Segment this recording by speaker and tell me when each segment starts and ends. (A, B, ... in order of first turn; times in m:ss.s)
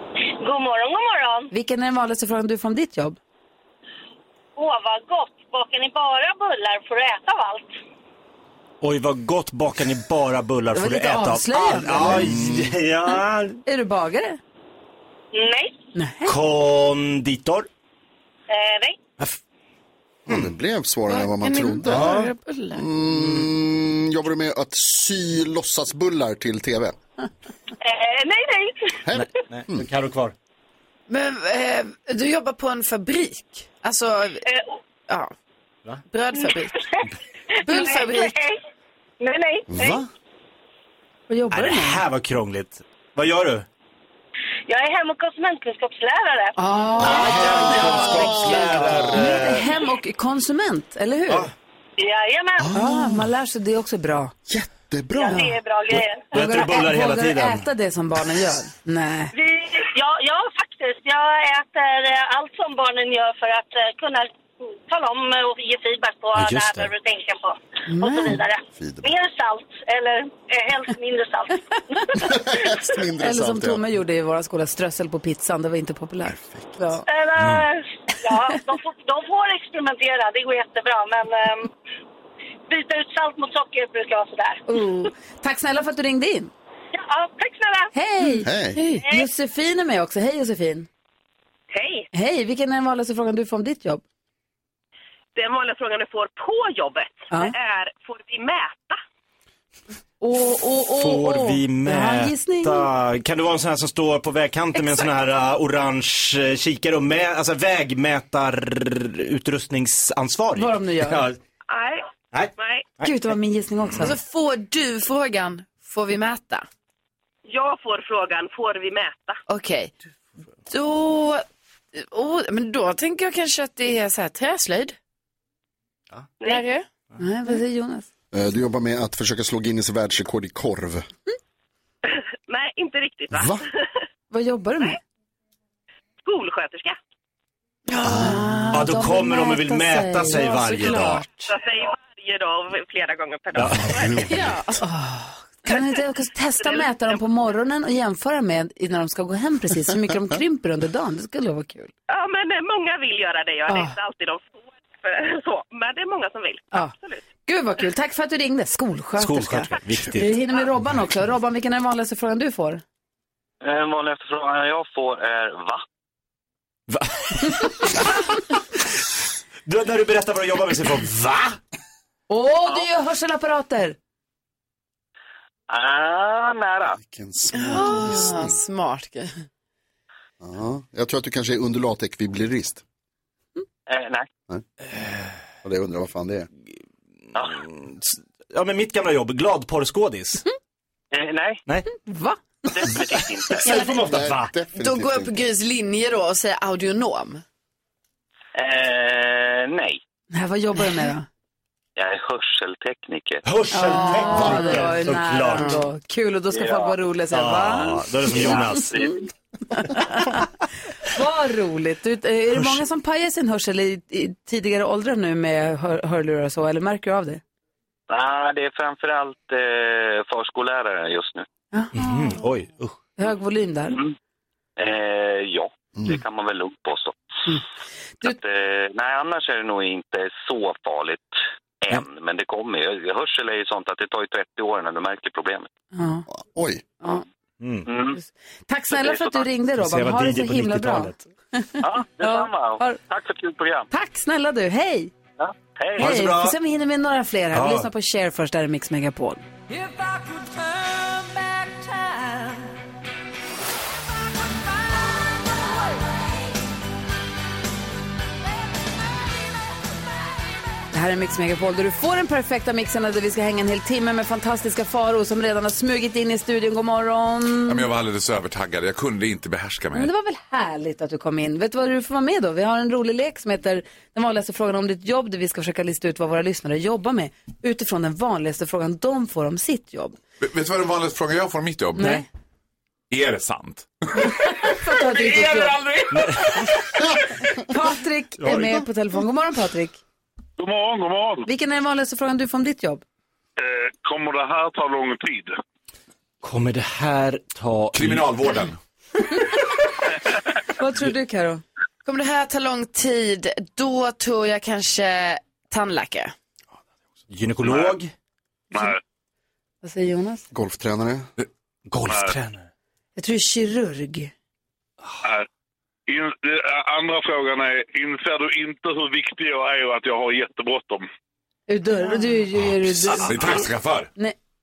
0:00.4-0:01.5 A
0:01.5-0:03.2 B
0:04.6-0:07.7 A
0:08.8-0:13.6 C
0:10.7-0:12.3 B
0:11.9-0:12.6 D
0:13.6-0:14.4 B
0:15.3-0:15.8 A
0:15.9-0:16.4 B
0:16.2-0:17.7 C
0:18.5-0:19.0 A
0:20.3-0:22.2 D
0:21.1-0:22.8 E
0:21.8-0:22.3 C
0:22.7-0:27.0 D
0:27.8-0:29.0 A
0:29.0-0:29.9 D
0:29.1-0:30.3 C
0:31.1-0:34.4 E
0:34.4-0:34.8 A
0:36.1-0:36.9 E
0:36.4-0:38.6 A
0:37.6-0:38.3 E
0:39.2-0:40.0 A
0:39.7-0:40.0 D
0:41.3-0:42.0 B
0:41.5-0:43.6 C
0:44.7-0:46.6 A
0:46.6-0:51.5 B
0:47.0-0:49.4 D
0:47.0-0:49.7 C
0:52.0-0:52.8 A
0:52.6-0:53.2 D
0:52.7-0:54.3 B
0:54.5-0:55.6 D
0:55.1-0:56.2 A
0:56.3-0:57.7 C
0:56.3-0:59.3 B
0:59.3-1:04.3 A
1:04.9-1:12.3 A
1:06.3-1:06.9 C
1:07.9-1:08.4 B
1:08.8-1:09.0 D
1:12.2-1:13.8 D
1:13.2-1:17.0 B
1:16.2-1:16.8 D
1:17.1-1:21.7 A
1:17.4-1:17.6 C
1:22.7-1:24.6 A
1:24.7-1:26.5 B
1:26.9-1:27.9 A
1:27.9-1:30.9 B
1:28.4-1:28.8 D
1:29.0-1:29.3 A
1:31.7-1:32.0 F
1:32.1-1:34.0 B
1:35.3-1:39.0 F
1:40.2-1:42.9 B
1:41.0-1:51.4 C
1:50.5-1:51.2 B
1:51.7-1:52.8 F
1:52.3-1:53.1 C
1:53.0-1:54.1 B
1:54.0-1:56.6 E
1:57.4-1:59.4 F
1:59.5-1:59.9 E
2:00.7-2:04.9 E
2:06.4-2:06.8 E
2:07.2-2:08.1 B
2:08.3-2:11.0 D
2:12.1-2:13.6 F
2:13.3-2:13.6 D
2:14.3-2:15.0 B
2:16.2-2:17.0 F
2:17.9-2:21.4 B
2:18.0-2:18.5 D
2:18.7-2:21.3 C
2:21.5-2:24.3 F
2:23.6-2:24.2 C
2:24.0-2:24.6 D
2:24.3-2:24.8 E
2:24.8-2:31.9 B
2:26.6-2:27.2 F
2:32.1-2:37.2 F
2:33.7-2:33.9 B
2:37.4-2:42.8 B
2:39.2-2:40.4 C
2:43.6-2:45.8 G
2:46.9-2:48.0 C
2:49.7-2:51.6 C
2:52.3-2:54.0 B
2:55.7-2:57.0 G
2:56.9-2:58.6 D
2:57.5-2:59.3 E
3:00.4-3:02.8 D
3:03.9-3:04.3 G
3:05.6-3:06.5 D
3:07.3-3:07.6 G
3:07.5-3:10.4 C
3:11.1-3:11.6 G
3:12.0-3:12.4 B
3:12.7-3:13.9 G
3:13.5-3:14.5 C
3:13.6-3:15.4 D
3:14.8-3:17.4 E
3:18.5-3:20.0 G
3:20.3-3:21.3 B
3:22.0-3:23.4 G
3:23.4-3:25.8 C
3:23.7-3:28.8 B
3:24.0-3:24.8 E
3:25.5-3:25.8 E
3:26.5-3:27.0 G
3:27.3-3:29.1 C
3:28.4-3:29.3 G
3:29.7-3:30.4 B
3:31.1-3:37.4 B
3:32.5-3:32.8 C
3:38.1-3:41.5 G
3:41.7-3:42.3 B
3:41.9-3:43.0 C
3:43.2-3:44.0 B
3:44.8-3:47.1 G
3:48.2-3:55.7 G
3:55.9-3:56.2 B
3:56.3-3:56.8 D
3:57.6-3:57.9 C
3:57.8-3:58.2 G
3:58.1-4:03.0 B
3:58.9-3:59.5 G
3:59.8-4:01.2 C
4:01.8-4:03.9 G
4:03.9-4:05.1 B
4:05.4-4:06.1 G
4:06.0-4:06.6 C
4:06.0-4:09.4 B
4:07.5-4:07.9 C
4:09.7-4:12.5 H
4:15.4-4:15.8 H
4:20.9-4:27.8 B
4:27.6-4:30.1 I
4:29.9-4:40.2 B
4:40.4-4:42.2 I
4:42.0-4:42.2 B
4:42.0-4:42.2 C
4:43.1-4:44.3 I
4:44.2-4:45.8 B
4:45.0-4:46.7 J
4:46.1-4:46.7 C
4:47.6-4:50.0 B
4:48.4-4:48.8 C
4:50.6-4:51.4 J
4:51.4-4:53.0 B
4:53.6-4:55.5 J
4:56.4-4:58.6 C
4:57.9-4:58.8 I
4:59.2-4:59.6 B
5:00.7-5:01.6 B
5:02.0-5:06.3 E
5:07.3-5:08.1 C
5:07.6-5:08.0 J
5:08.7-5:09.0 J
5:09.8-5:10.4 B
5:10.5-5:11.2 D
5:11.9-5:12.7 C
5:12.1-5:12.4 J
5:13.2-5:14.3 B
5:16.1-5:21.0 J
5:21.7-5:24.3 B
5:23.1-5:24.1 I